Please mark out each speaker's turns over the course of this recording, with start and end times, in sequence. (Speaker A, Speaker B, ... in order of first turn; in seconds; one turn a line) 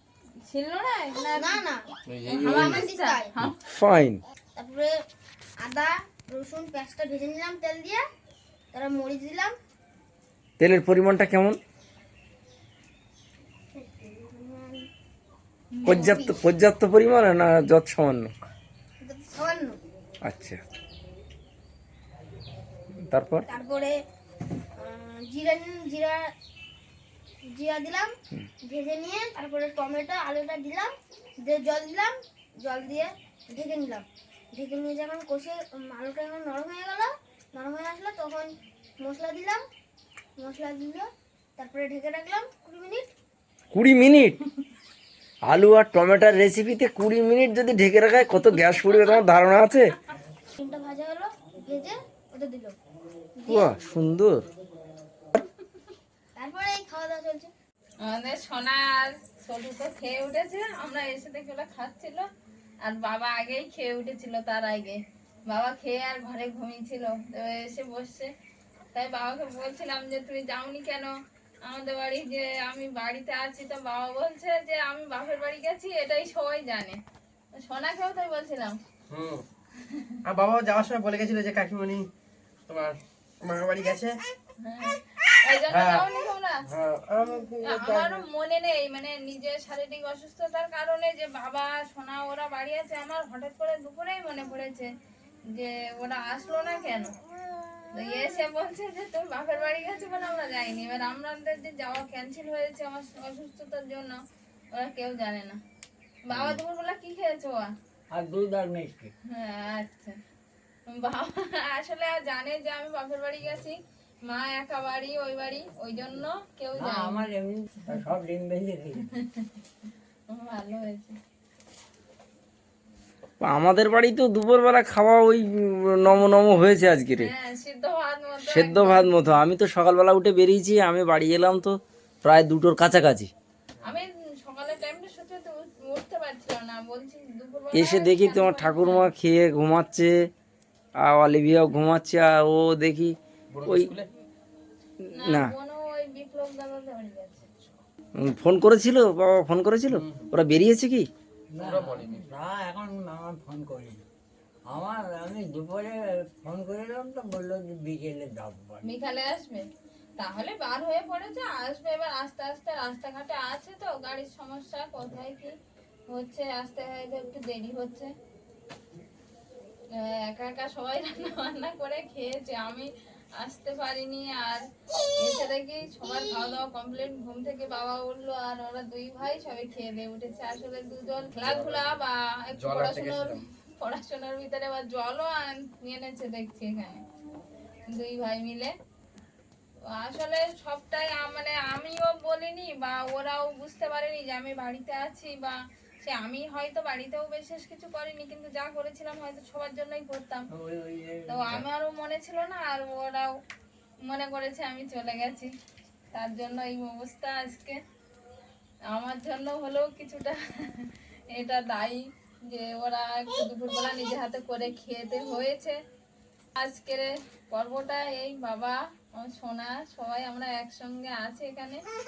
Speaker A: 0.4-1.6
Speaker B: 1.4-1.9
Speaker C: 2.0-2.9
Speaker A: 2.3-3.5
Speaker B: 2.5-3.3
Speaker D: 3.6-4.2
Speaker B: 4.5-4.9
Speaker B: 5.6-8.0
Speaker B: 8.7-9.5
Speaker D: 10.6-11.6
Speaker B: 13.7-14.9
Speaker A: 15.7-16.2
Speaker D: 15.8-18.3
Speaker B: 15.9-16.3
Speaker B: 19.0-19.8
Speaker D: 20.2-20.6
Speaker D: 23.1-23.4
Speaker B: 23.5-24.0
Speaker B: 24.8-26.2
Speaker B: 27.4-30.9
Speaker B: 31.4-39.6
Speaker B: 40.4-43.1
Speaker D: 43.7-44.4
Speaker D: 45.5-49.9
Speaker A: 48.8-49.0
Speaker B: 50.6-52.7
Speaker B: 53.4-53.7
Speaker D: 53.5-54.4
Speaker B: 56.3-57.5
Speaker A: 58.0-62.2
Speaker A: 62.8-68.3
Speaker A: 68.9-71.1
Speaker A: 71.6-77.0
Speaker A: 77.6-78.8
Speaker C: 79.1-79.4
Speaker A: 79.8-80.2
Speaker C: 80.2-82.1
Speaker C: 82.7-84.2
Speaker A: 84.6-86.6
Speaker C: 85.7-86.1
Speaker C: 86.7-88.2
Speaker A: 87.6-94.9
Speaker A: 95.5-97.1
Speaker A: 97.9-104.2
Speaker A: 104.7-105.6
Speaker A: 106.2-107.7
Speaker E: 108.1-109.1
Speaker A: 109.3-110.1
Speaker A: 110.9-117.3
Speaker E: 116.7-119.1
Speaker A: 119.1-119.5
Speaker A: 120.3-121.1
Speaker D: 123.4-127.3
Speaker A: 127.2-129.2
Speaker D: 128.4-133.3
Speaker A: 133.8-139.1
Speaker D: 137.7-140.1
Speaker D: 141.0-143.1
Speaker C: 143.5-144.1
Speaker A: 145.1-147.4
Speaker D: 145.2-145.5
Speaker D: 148.2-151.1
Speaker E: 151.5-154.0
Speaker C: 151.6-152.3
Speaker E: 154.7-158.8
Speaker A: 158.8-159.6
Speaker A: 160.2-165.5
Speaker A: 166.1-168.1
Speaker A: 169.9-174.6
Speaker A: 175.2-187.0
Speaker C: 181.4-182.0
Speaker C: 182.5-183.5
Speaker A: 187.9-188.7
Speaker A: 189.9-200.5
Speaker E: 200.5-201.7
Speaker A: 201.3-203.3
Speaker A: 204.0-205.5
Speaker A: 206.1-207.8
Speaker A: 208.9-215.8
Speaker A: 216.6-221.8